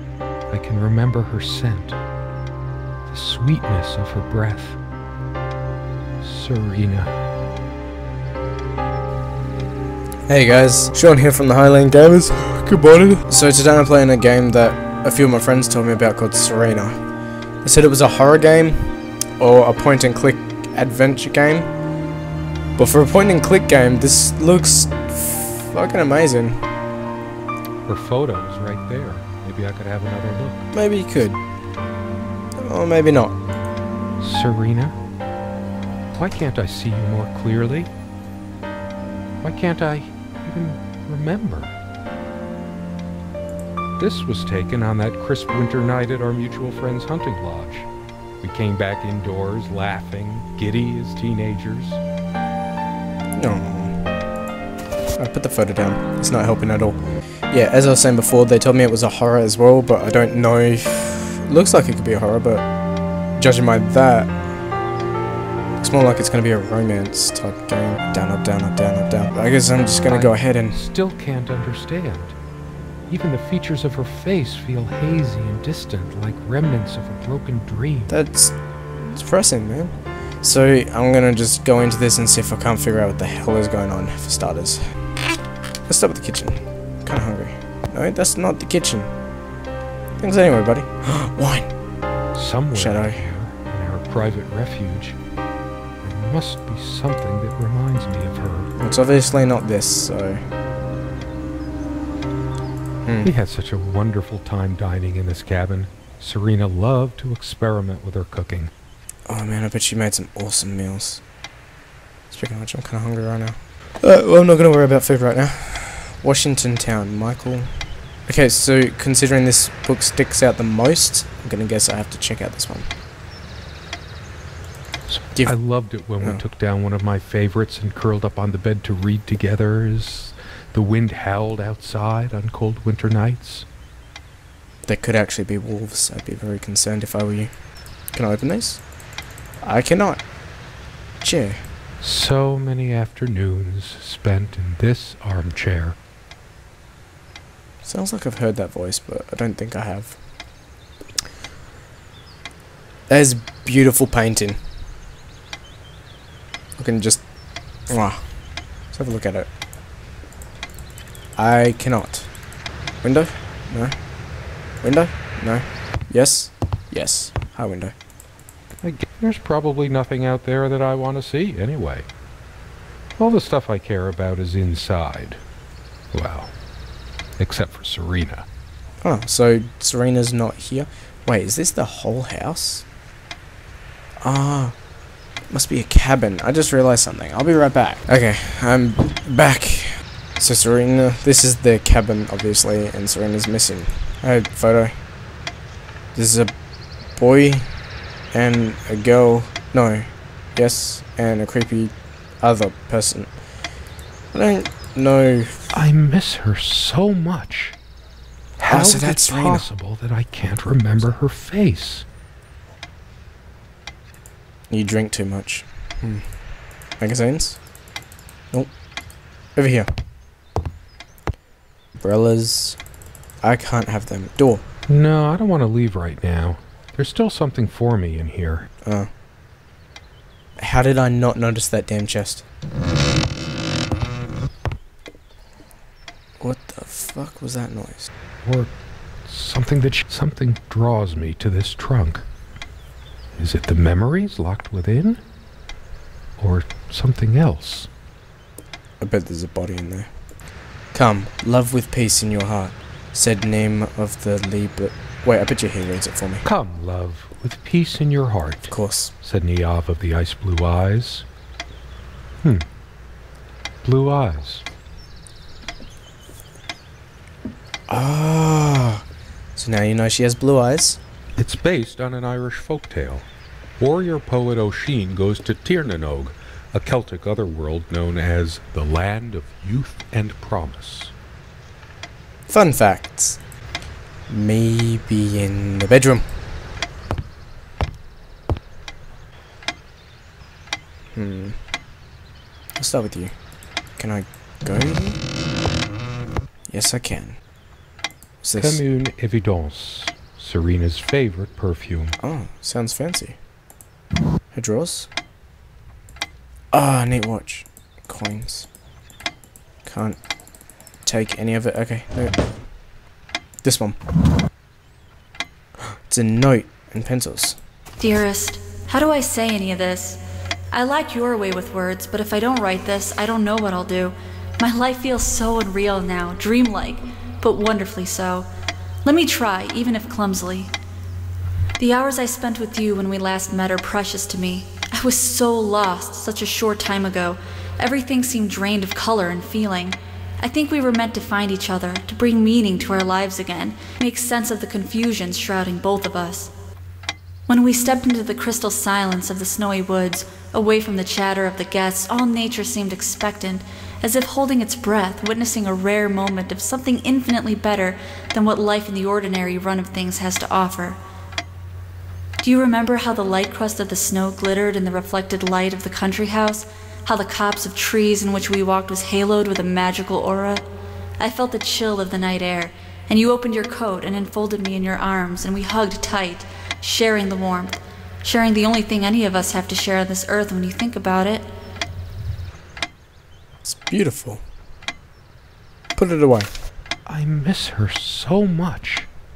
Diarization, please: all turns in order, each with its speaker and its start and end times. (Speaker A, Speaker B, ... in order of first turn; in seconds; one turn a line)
Speaker A: 0.5-2.0
Speaker A: 3.1-4.8
Speaker A: 6.2-7.1
Speaker B: 10.3-17.0
Speaker B: 17.6-21.7
Speaker B: 22.8-26.6
Speaker A: 27.9-30.7
Speaker B: 30.7-31.4
Speaker B: 32.6-33.4
Speaker A: 34.2-35.0
Speaker A: 36.1-37.9
Speaker A: 39.4-41.7
Speaker A: 44.0-47.9
Speaker A: 48.4-52.0
Speaker B: 53.3-54.0
Speaker B: 55.1-57.0
Speaker B: 57.5-62.6
Speaker B: 63.4-64.3
Speaker B: 65.8-70.8
Speaker A: 70.1-72.3
Speaker A: 73.1-78.1
Speaker B: 78.1-78.5
Speaker B: 79.1-84.8
Speaker B: 85.9-89.1
Speaker B: 90.2-91.7
Speaker A: 92.3-95.2
Speaker B: 92.7-93.2
Speaker A: 96.0-98.7
Speaker B: 98.8-100.4
Speaker B: 103.0-103.3
Speaker A: 103.2-108.7
Speaker B: 109.3-111.2
Speaker B: 112.3-117.7
Speaker B: 118.3-122.9
Speaker A: 125.1-133.7
Speaker B: 134.9-137.5
Speaker B: 138.1-138.8
Speaker B: 139.6-140.2
Speaker B: 141.2-141.6
Speaker A: 142.0-145.9
Speaker B: 147.8-150.2
Speaker B: 153.1-154.6
Speaker B: 156.8-157.2
Speaker B: 157.9-158.2
Speaker B: 158.9-159.5
Speaker B: 161.4-162.3
Speaker B: 163.0-163.9
Speaker B: 164.8-167.9
Speaker A: 168.8-172.1
Speaker A: 173.2-175.4
Speaker A: 176.1-176.5
Speaker A: 177.4-178.4
Speaker B: 179.0-182.8
Speaker B: 184.2-184.8
Speaker B: 185.5-194.9
Speaker B: 196.1-196.5
Speaker B: 197.2-197.7
Speaker B: 198.3-203.3
Speaker B: 204.3-205.6
Speaker A: 205.7-207.7
Speaker A: 208.6-212.0
Speaker B: 208.7-209.6
Speaker B: 214.7-216.2
Speaker B: 217.0-217.6
Speaker B: 219.6-219.9
Speaker B: 222.0-222.8
Speaker B: 223.4-224.6
Speaker A: 224.9-228.7
Speaker B: 228.8-229.1
Speaker B: 230.6-232.4
Speaker B: 236.4-238.1
Speaker A: 238.4-238.7
Speaker A: 239.2-242.2
Speaker A: 243.4-245.2
Speaker A: 246.4-247.9
Speaker B: 249.0-250.1
Speaker B: 250.9-256.4
Speaker A: 256.4-258.7
Speaker B: 258.7-259.1
Speaker A: 259.2-261.2
Speaker A: 263.8-264.6
Speaker B: 267.9-271.0
Speaker A: 271.4-273.3
Speaker A: 273.8-281.1
Speaker B: 282.5-283.4
Speaker B: 284.3-286.3
Speaker B: 291.1-291.6
Speaker B: 292.8-293.3
Speaker B: 294.0-295.2
Speaker B: 296.7-297.4
Speaker B: 298.4-298.8
Speaker A: 298.6-302.1
Speaker B: 302.2-303.4
Speaker B: 304.5-305.1
Speaker B: 306.7-308.7
Speaker B: 309.8-310.2
Speaker B: 311.0-312.4
Speaker B: 313.6-314.0
Speaker B: 315.8-317.6
Speaker C: 318.0-320.2
Speaker C: 320.7-328.5
Speaker C: 329.0-330.7
Speaker C: 331.8-346.5
Speaker C: 347.5-361.0
Speaker C: 362.4-370.6
Speaker C: 371.2-381.5
Speaker B: 383.6-384.4
Speaker B: 385.9-386.5
Speaker A: 387.1-389.1